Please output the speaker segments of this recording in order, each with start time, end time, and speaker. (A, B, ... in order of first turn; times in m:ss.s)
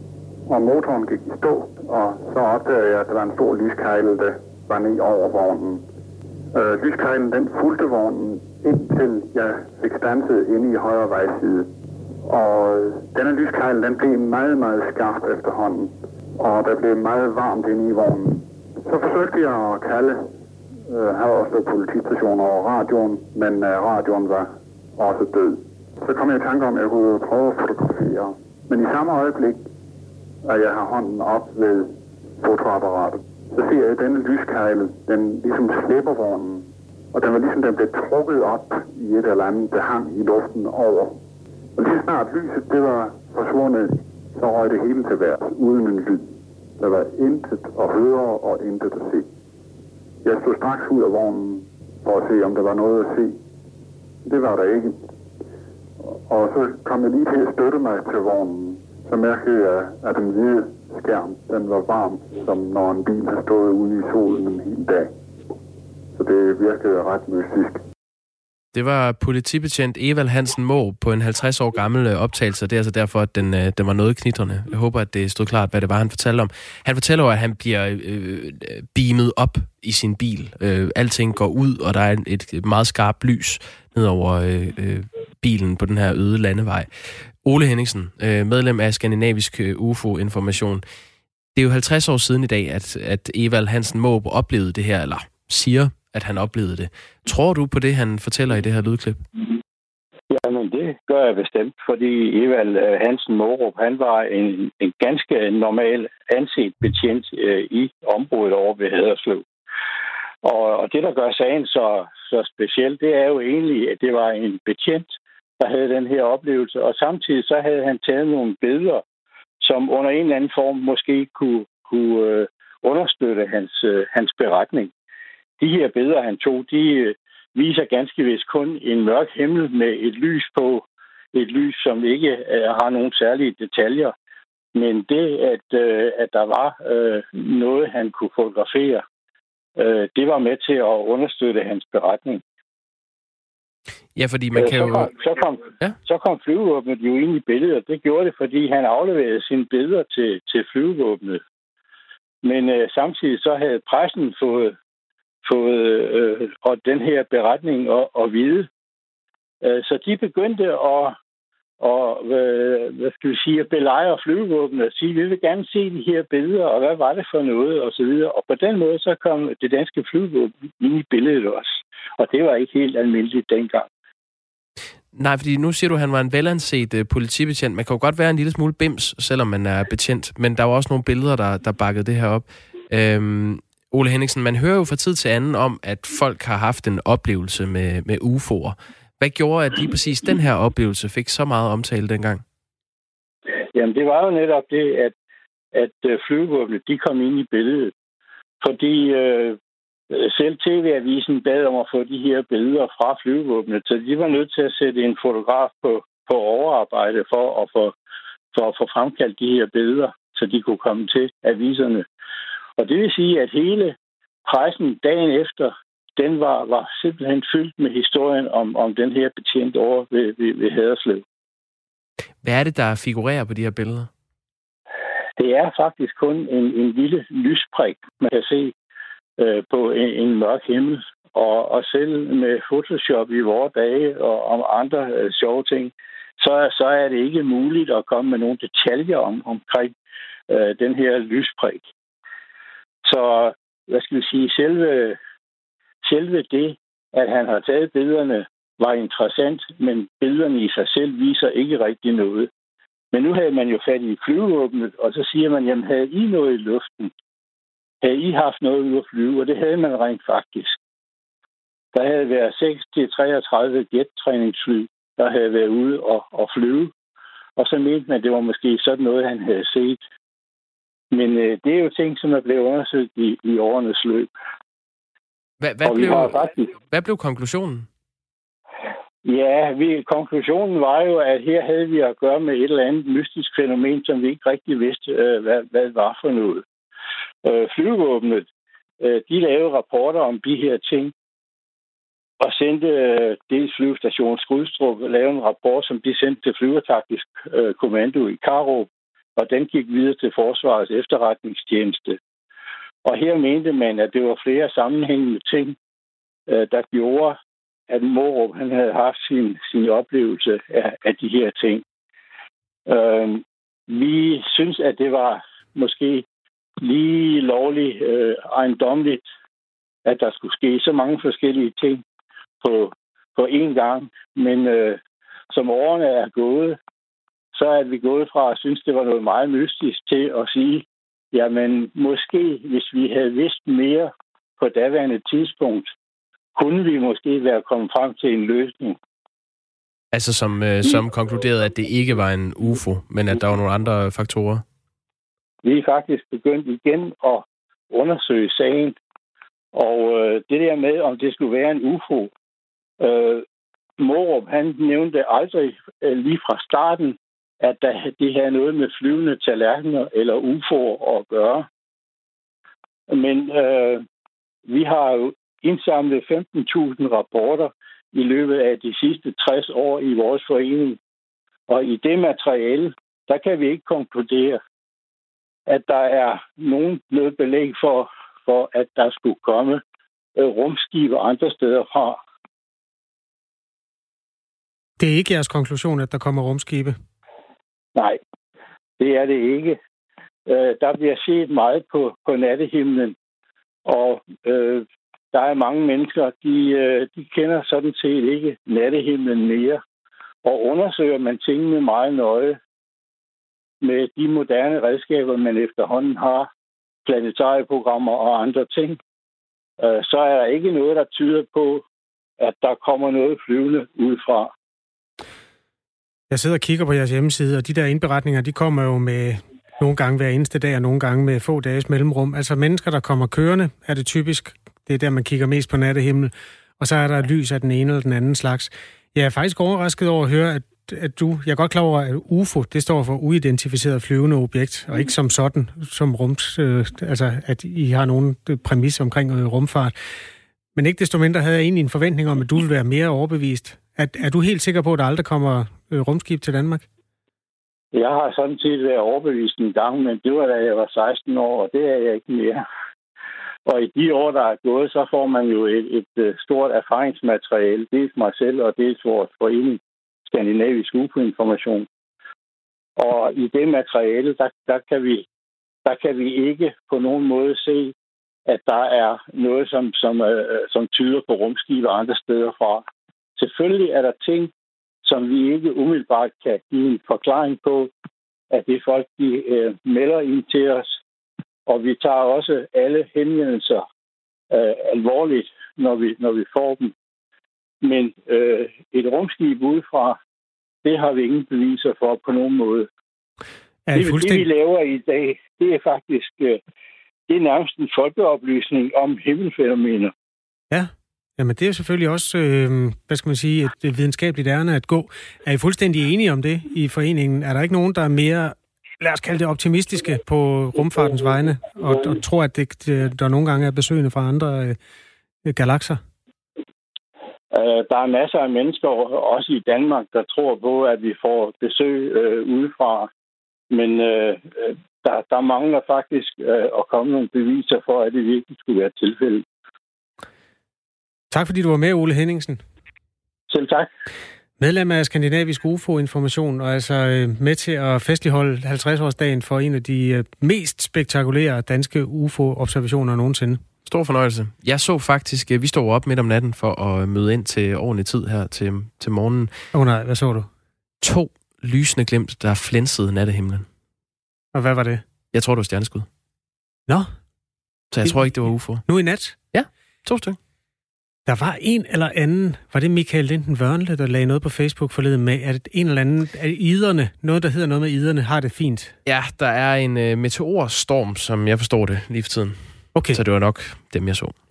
0:00.5-0:05.8 A
0:06.5-0:11.7 A
0:12.3-0:20.3 A
0:20.9-0:29.6 A
0:30.4-0:41.2 A
0:41.8-0:49.3 A
0:50.2-0:53.4 A
0:54.2-0:55.0 A
0:56.3-1:05.1 A
1:06.2-1:07.8 A
1:08.7-1:30.8 B
1:31.6-1:39.2 B
1:40.3-1:49.4 C
1:50.4-1:59.0 C
1:59.6-2:04.9 C
2:05.6-2:14.1 C
2:14.8-2:19.0 C
2:19.8-2:22.4 C
2:24.2-2:25.1 B
2:24.6-2:31.4 C
2:32.4-2:34.8 C
2:35.4-2:38.7 C
2:39.6-2:41.1 C
2:41.8-2:53.9 C
2:55.1-3:12.4 B
3:13.8-3:15.1 C
3:15.7-3:17.9 C
3:18.6-3:19.6 C
3:20.1-3:28.0 C
3:28.5-3:32.1 C
3:32.8-3:41.2 C
3:42.4-3:44.1 B
3:45.4-3:48.7 C
3:49.4-3:59.9 C
4:00.5-4:01.9 C
4:03.0-4:05.2 C
4:06.0-4:12.5 C
4:13.1-4:17.1 C
4:18.0-4:20.8 C
4:21.9-4:26.9 C
4:27.6-4:30.0 C
4:31.1-4:34.3 C
4:35.6-4:37.9 B
4:35.8-4:36.7 C
4:39.2-4:46.6 C
4:47.4-4:48.5 C
4:49.0-4:51.1 C
4:52.4-5:02.2 C
5:03.0-5:05.8 C
5:06.5-5:07.4 C
5:07.9-5:11.8 C
5:12.9-5:16.2 C
5:16.8-5:19.2 C
5:20.1-5:22.0 C
5:22.6-5:25.0 C
5:25.5-5:26.8 C
5:27.5-5:35.9 C
5:36.6-5:39.0 C
5:40.1-5:44.6 B
5:45.6-5:49.0 C
5:49.7-5:52.3 C
5:53.0-5:53.4 C
5:54.0-6:01.7 C
6:03.1-6:04.0 C
6:04.7-6:11.0 C
6:11.7-6:14.6 C
6:15.7-6:19.8 C
6:20.4-6:22.2 C
6:25.0-6:27.0 D
6:29.0-6:29.8 C
6:30.4-6:33.2 C
6:33.8-6:39.8 C
6:40.4-6:42.6 C
6:43.8-6:46.5 C
6:47.0-6:49.0 C
6:49.8-6:51.8 C
6:52.4-6:54.5 C
6:56.3-7:20.0 D
7:20.8-7:26.8 D
7:27.9-7:32.6 C
7:33.7-7:41.9 C
7:43.0-7:45.2 C
7:45.9-7:47.9 C
7:48.5-7:52.8 C
7:53.4-7:54.5 C
7:55.0-7:57.9 C
7:58.5-8:01.0 C
8:01.7-8:03.8 C
8:04.5-8:06.9 C
8:07.8-8:10.2 C
8:10.8-8:12.9 C
8:13.9-8:14.5 D
8:14.0-8:16.6 C
8:17.3-8:20.1 C
8:20.7-8:34.8 D
8:35.4-8:36.0 D
8:37.5-8:43.1 C
8:43.7-8:49.4 C
8:51.3-8:52.6 D
8:53.5-8:53.9 C
8:54.6-9:03.6 D
9:03.9-9:09.5 B
9:09.7-9:10.5 D
9:11.0-9:13.7 B
9:14.5-9:15.0 D
9:15.3-9:16.1 B
9:17.9-9:18.9 B
9:18.0-9:18.3 D
9:18.8-9:19.4 D
9:19.5-9:20.4 B
9:21.3-9:29.0 D
9:29.1-9:34.3 B
9:33.0-9:33.2 D